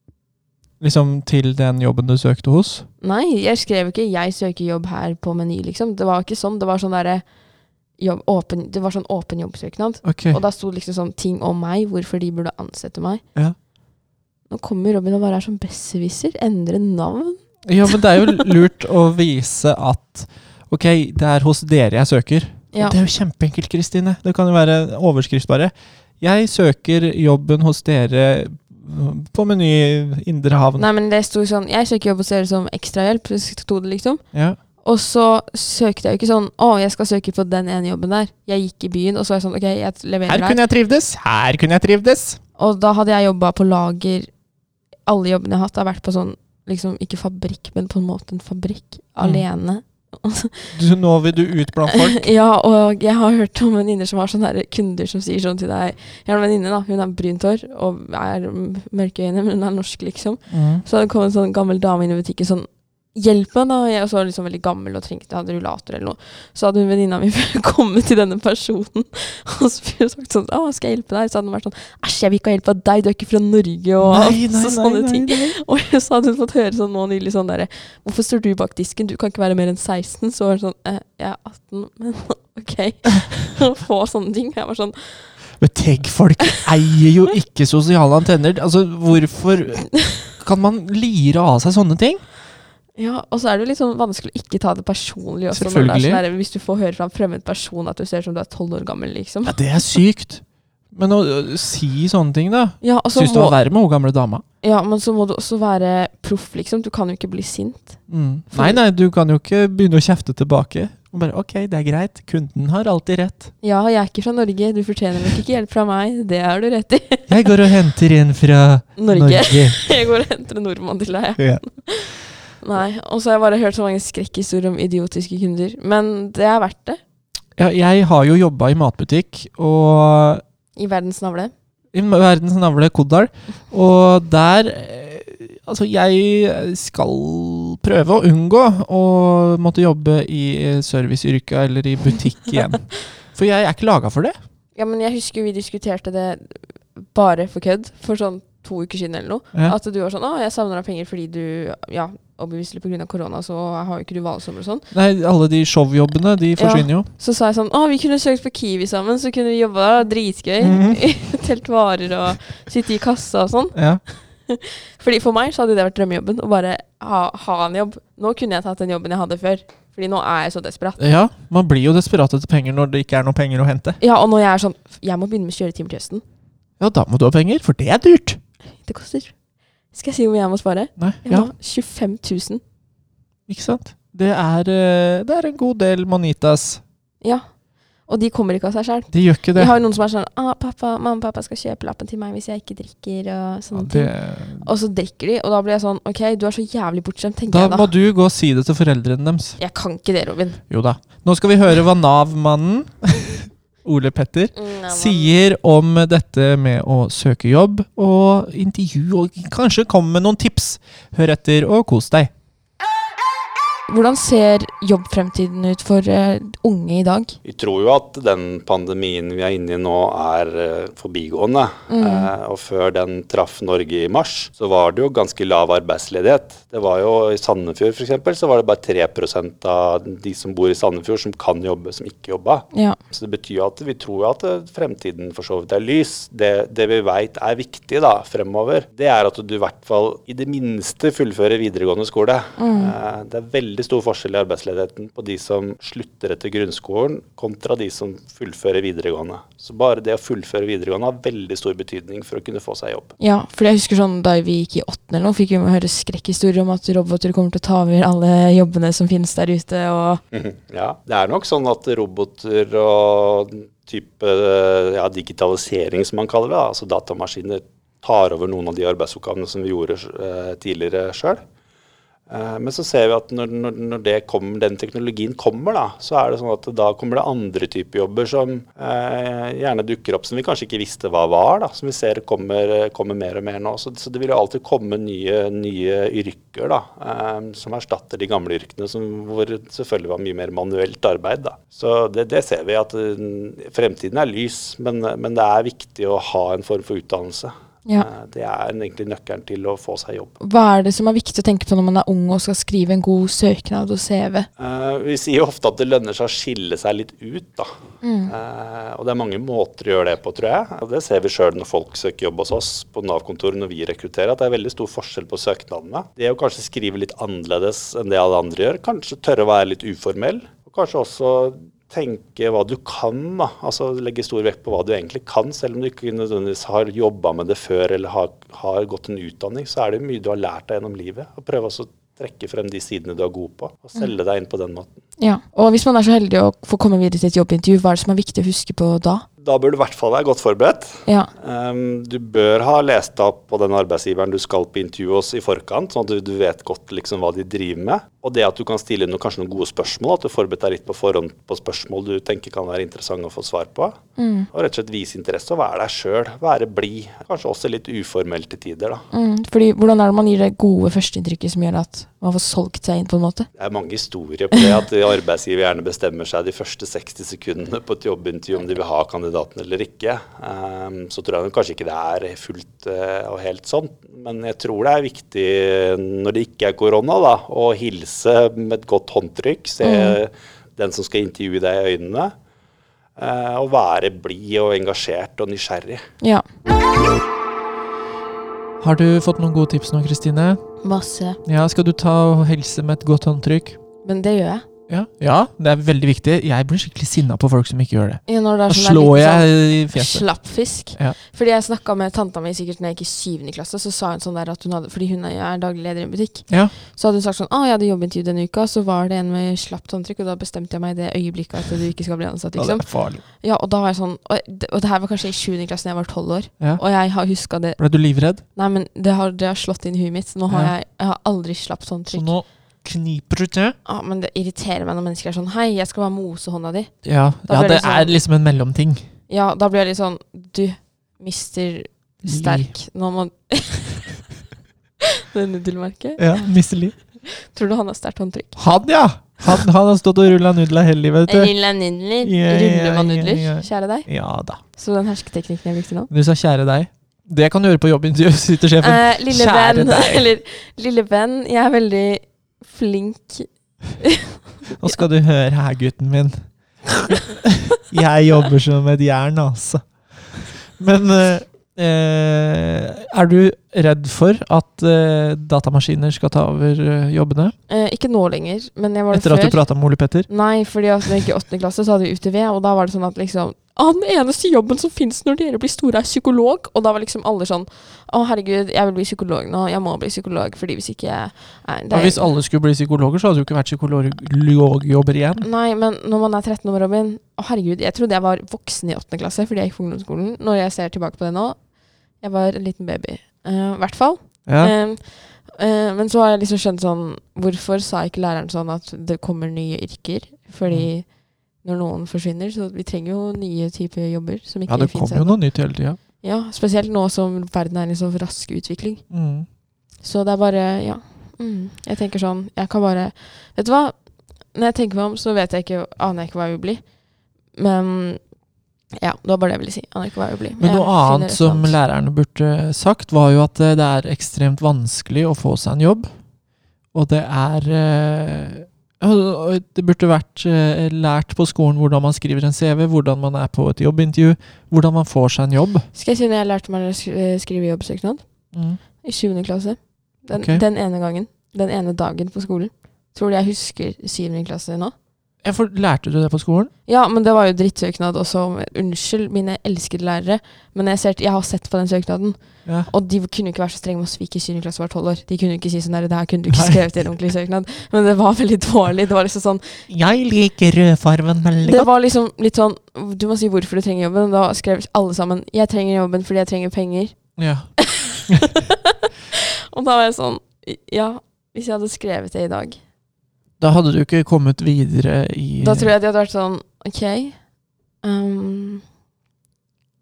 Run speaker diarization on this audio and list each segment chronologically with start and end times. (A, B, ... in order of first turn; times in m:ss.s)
0:00.8-0:02.9 A
0:03.0-0:07.2 B
0:08.0-0:13.2 B
0:10.0-0:10.4 A
0:14.5-0:18.4 B
0:17.7-0:30.9 A
0:22.7-0:23.0 B
0:30.8-0:34.2 B
0:34.8-0:40.6 B
0:40.3-0:42.4 A
0:42.6-0:44.3 B
0:45.0-0:50.7 B
0:50.7-0:52.3 A
0:51.9-1:25.3 B
1:00.5-1:00.8 A
1:14.0-1:15.6 A
1:25.6-1:32.2 A
1:33.0-1:39.6 B
1:35.5-1:36.2 A
1:39.4-1:44.4 A
1:42.8-1:43.6 B
1:44.6-1:48.8 B
1:48.1-1:53.5 A
1:53.6-1:57.3 B
1:57.3-1:59.8 A
1:59.0-2:07.0 B
2:01.4-2:01.6 A
2:07.6-2:10.4 A
2:10.8-2:11.5 B
2:11.9-2:24.4 A
2:24.7-2:34.9 B
2:34.9-2:37.1 A
2:36.6-2:51.0 B
2:40.6-2:41.0 A
2:43.7-2:44.0 A
2:51.0-2:54.0 A
2:54.0-2:56.2 B
2:56.8-2:58.4 A
2:58.8-2:59.3 B
2:59.9-3:02.6 B
3:01.0-3:01.5 A
3:03.5-3:06.8 A
3:08.0-3:17.9 B
3:09.1-3:09.7 A
3:13.7-3:14.7 A
3:17.5-3:19.6 A
3:19.6-3:20.6 B
3:20.7-3:32.3 A
3:24.5-3:25.4 B
3:33.9-3:37.4 B
3:37.4-4:13.1 C
3:41.9-3:42.3 B
4:02.6-4:02.9 B
4:13.2-4:20.2 B
4:20.3-4:31.4 C
4:32.3-5:00.3 C
5:00.4-5:04.5 B
5:04.6-5:07.7 C
5:08.0-5:08.3 B
5:08.3-5:34.9 C
5:35.2-5:39.2 B
5:39.4-5:54.0 C
5:54.2-5:54.5 B
5:54.5-5:59.0 C
5:59.1-6:03.5 B
6:03.6-6:22.3 C
6:19.8-6:20.2 B
6:23.2-6:26.0 C
6:26.2-6:26.4 B
6:28.8-6:30.6 A
6:30.8-6:31.4 B
6:31.4-6:33.8 A
6:34.0-6:34.6 B
6:34.9-6:40.3 A
6:38.3-6:57.8 B
6:46.5-6:46.7 A
6:52.6-6:53.2 A
6:57.8-6:58.4 A
6:58.5-7:02.3 B
7:00.5-7:00.7 A
7:02.1-7:03.8 A
7:03.8-7:08.2 B
7:07.0-7:09.1 A
7:09.3-7:14.0 B
7:12.2-7:12.7 A
7:15.3-7:16.4 B
7:16.2-7:17.0 A
7:17.0-7:18.6 B
7:18.6-7:21.5 A
7:21.3-7:24.1 B
7:22.2-7:24.6 A
7:24.6-7:26.1 B
7:26.1-7:30.3 A
7:28.8-7:35.0 B
7:34.7-7:36.5 A
7:37.0-7:39.8 A
7:40.8-7:47.5 A
7:47.7-7:49.6 B
7:49.1-7:50.3 A
7:50.3-8:02.3 B
8:01.9-8:05.5 A
8:05.4-8:11.6 B
8:12.2-8:29.0 B
8:14.4-8:14.7 A
8:24.7-8:26.0 A
8:29.1-8:29.5 A
8:30.0-8:34.0 B
8:34.5-8:36.8 B
8:37.5-8:38.2 B
8:38.9-8:41.8 B
8:40.6-8:46.1 A
8:46.9-8:55.9 A
8:55.9-8:58.2 B
8:58.5-8:58.8 A
8:59.0-9:04.9 B
9:00.3-9:00.6 A
9:05.4-9:06.7 A
9:06.8-9:19.8 B
9:12.6-9:12.9 A
9:16.5-9:16.8 A
9:19.9-9:21.9 A
9:21.6-9:27.2 B
9:27.4-9:27.7 A
9:27.8-9:28.7 B
9:29.3-9:32.8 B
9:33.6-9:35.9 A
9:35.6-9:37.4 B
9:38.0-9:38.8 B